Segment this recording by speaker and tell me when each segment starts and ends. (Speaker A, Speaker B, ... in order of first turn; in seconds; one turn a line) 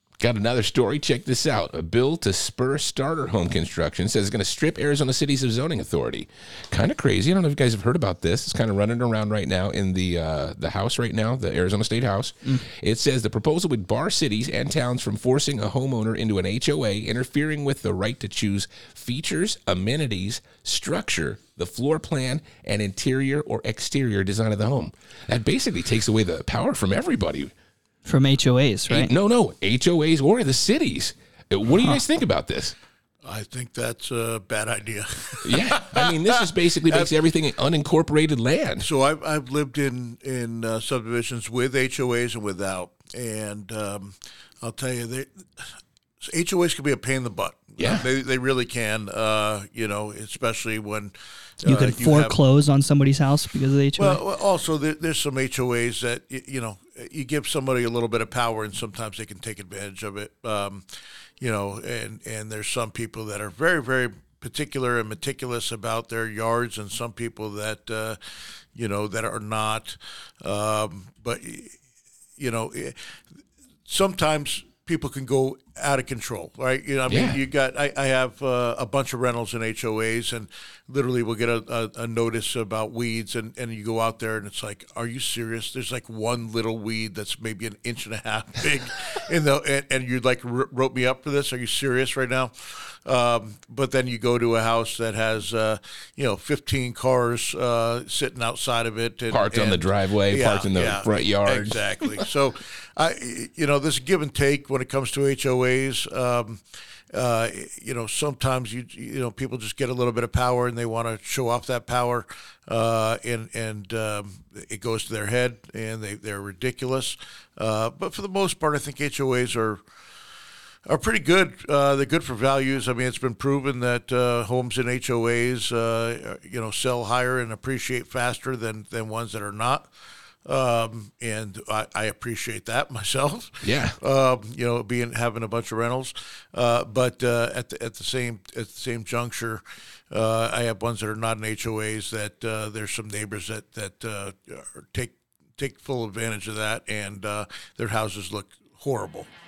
Speaker A: 0.2-27.5
Speaker B: 28.1-29.1
Speaker A: 28.9-32.8
Speaker C: 33.2-37.1
Speaker A: 35.4-38.9
Speaker C: 38.8-45.6
Speaker C: 46.2-52.4
Speaker A: 47.8-48.1
Speaker B: 51.6-54.2
Speaker C: 54.0-60.9
Speaker C: 61.4-68.2
Speaker C: 68.7-71.7
Speaker C: 72.4-73.0
Speaker C: 73.8-119.8
Speaker A: 77.0-77.4
Speaker A: 99.3-102.3
Speaker C: 120.8-129.9
Speaker C: 130.4-149.3
Speaker A: 133.6-134.0